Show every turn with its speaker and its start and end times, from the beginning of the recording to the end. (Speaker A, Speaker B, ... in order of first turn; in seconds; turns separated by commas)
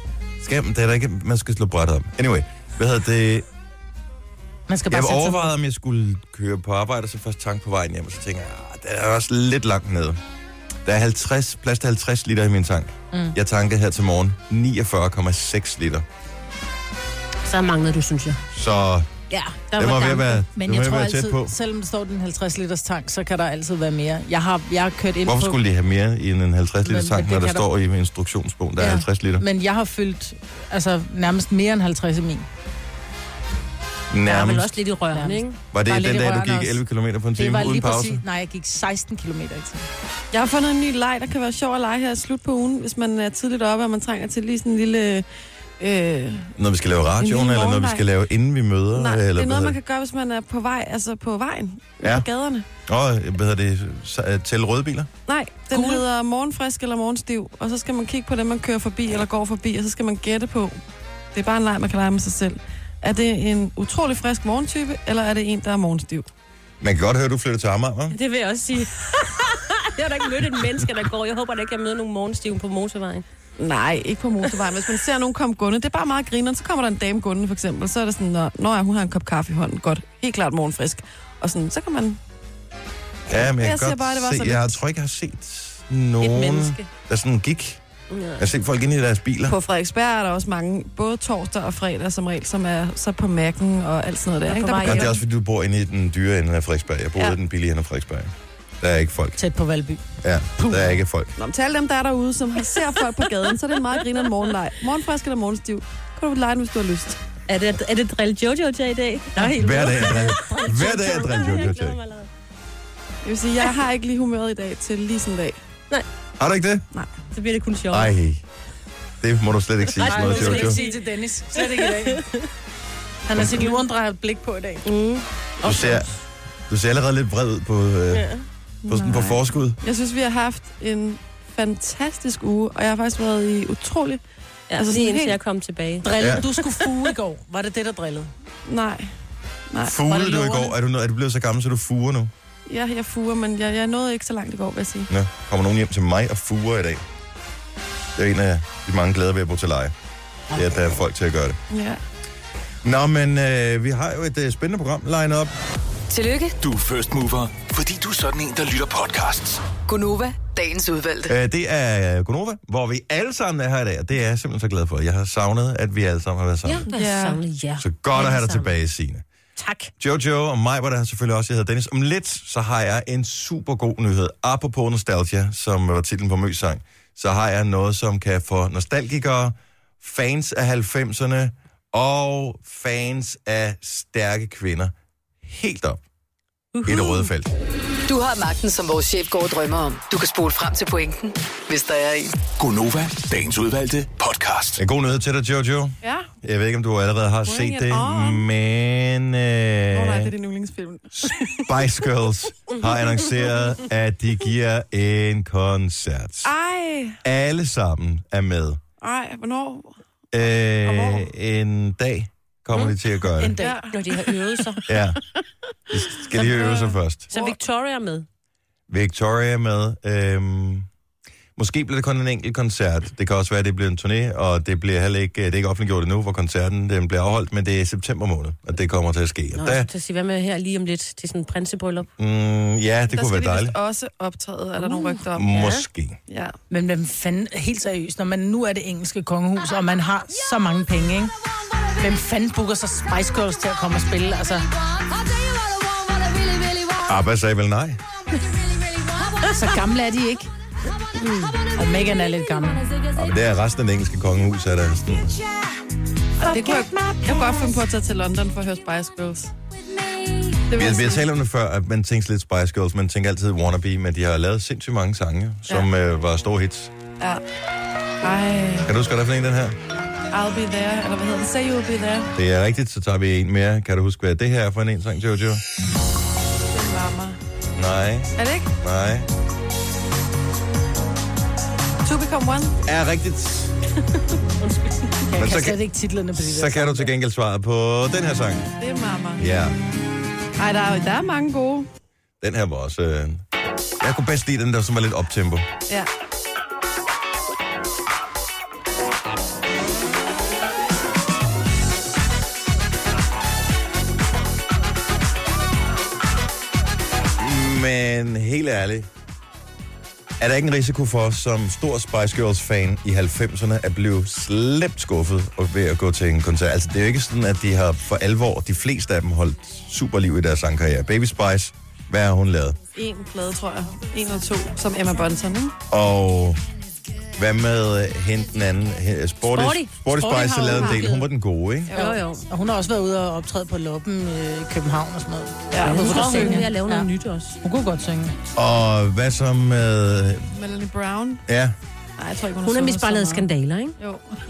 Speaker A: 0.4-3.5, Speaker B: 4.7-5.5, Speaker A: 4.9-10.2, Speaker A: 10.8-16.1, Speaker C: 17.4-18.4, Speaker A: 18.5-19.1, Speaker C: 19.3-20.4, Speaker A: 19.8-21.5, Speaker B: 20.5-25.6, Speaker A: 25.2-29.4, Speaker B: 26.9-27.7, Speaker B: 28.8-32.5, Speaker A: 34.1-34.7, Speaker C: 34.2-35.6, Speaker B: 35.1-36.8, Speaker A: 35.7-38.2, Speaker B: 37.4-39.9, Speaker D: 40.3-45.3, Speaker D: 45.8-46.5, Speaker A: 46.6-49.8, Speaker D: 47.2-48.0, Speaker D: 48.9-52.7, Speaker A: 52.9-55.1, Speaker D: 55.3-60.8, Speaker D: 61.3-66.3, Speaker A: 66.8-68.2, Speaker C: 68.1-73.3, Speaker D: 73.6-82.2, Speaker A: 83.3-87.8, Speaker D: 83.3-84.8, Speaker C: 86.2-86.9, Speaker C: 88.1-88.5, Speaker A: 88.4-89.6, Speaker D: 89.5-95.1, Speaker C: 94.5-95.2, Speaker A: 94.8-99.4, Speaker B: 99.4-100.0, Speaker A: 100.2-101.3, Speaker B: 100.6-101.0, Speaker D: 101.4-107.2, Speaker C: 107.5-112.3, Speaker A: 109.5-112.0, Speaker B: 110.2-110.6, Speaker D: 113.2-115.6, Speaker A: 116.4-116.9, Speaker C: 117.3-118.2, Speaker A: 117.9-118.4, Speaker A: 119.2-120.8, Speaker C: 120.0-122.5, Speaker B: 120.0-122.2, Speaker B: 123.3-124.9, Speaker C: 123.4-123.8, Speaker C: 124.9-126.1, Speaker A: 125.6-126.1, Speaker A: 126.7-128.3, Speaker C: 128.1-128.4, Speaker D: 128.8-134.2, Speaker A: 128.9-129.8, Speaker C: 134.7-136.7, Speaker D: 134.8-135.4, Speaker B: 136.0-138.3, Speaker D: 138.7-139.1, Speaker D: 139.7-140.7, Speaker A: 139.8-142.3, Speaker D: 142.7-145.1, Speaker A: 145.1-147.0, Speaker A: 148.2-149.9, Speaker A: 150.5-151.6, Speaker D: 151.7-152.0, Speaker A: 152.8-155.5, Speaker E: 156.1-156.6, Speaker F: 156.6-159.7, Speaker E: 159.9-161.3, Speaker A: 161.3-166.9, Speaker C: 166.6-168.7, Speaker D: 166.9-167.4, Speaker A: 167.8-169.2, Speaker C: 169.6-169.9, Speaker A: 170.0-186.0, Speaker C: 186.7-187.3, Speaker A: 186.9-187.5, Speaker E: 188.1-192.3, Speaker F: 192.6-194.8, Speaker A: 194.8-200.3, Speaker D: 196.0-196.3, Speaker D: 197.4-198.5, Speaker D: 199.9-201.7, Speaker A: 201.2-206.5, Speaker C: 202.7-203.1, Speaker D: 206.4-207.2, Speaker A: 207.2-208.8, Speaker D: 209.0-209.9, Speaker A: 210.3-213.6, Speaker D: 210.8-211.3, Speaker B: 213.4-213.8, Speaker D: 213.6-214.8, Speaker C: 213.9-214.8, Speaker A: 214.9-215.2, Speaker A: 215.9-217.3, Speaker D: 216.3-217.6, Speaker C: 217.3-218.3, Speaker A: 218.9-220.9, Speaker A: 221.6-229.9, Speaker C: 229.5-232.1, Speaker A: 232.2-233.8, Speaker D: 233.1-235.6, Speaker C: 234.8-235.8, Speaker A: 235.3-236.2, Speaker D: 236.3-236.6, Speaker B: 236.7-241.3, Speaker B: 242.0-244.7, Speaker A: 247.0-248.0, Speaker C: 248.3-249.6, Speaker B: 249.4-250.5, Speaker C: 251.2-251.7, Speaker B: 251.7-252.8, Speaker A: 253.1-255.4, Speaker B: 256.4-257.5, Speaker D: 256.4-259.5, Speaker D: 260.7-261.3, Speaker A: 260.7-266.9, Speaker D: 268.2-268.9, Speaker A: 268.9-269.8, Speaker D: 270.3-272.3, Speaker A: 272.4-275.6, Speaker D: 276.7-277.4, Speaker A: 277.8-279.3, Speaker D: 278.4-278.7, Speaker D: 282.0-282.8, Speaker A: 282.9-283.8, Speaker C: 284.6-285.3, Speaker B: 285.3-287.1, Speaker A: 285.4-285.8, Speaker A: 286.4-288.7, Speaker D: 288.8-289.4, Speaker A: 289.4-289.8, Speaker D: 290.6-291.9, Speaker A: 292.4-293.4, Speaker A: 294.0-295.7, Speaker A: 307.4-309.1, Speaker A: 310.4-322.8, Speaker D: 322.9-325.8, Speaker A: 325.9-326.6, Speaker A: 327.4-331.9, Speaker C: 329.5-331.3, Speaker D: 330.7-331.1, Speaker D: 331.9-332.2, Speaker C: 331.9-332.4, Speaker B: 332.5-337.1, Speaker D: 335.7-336.6, Speaker C: 335.8-337.6, Speaker B: 337.6-338.4, Speaker A: 338.6-340.5, Speaker D: 340.6-341.4, Speaker A: 341.5-341.8, Speaker D: 342.2-343.5, Speaker C: 342.6-344.0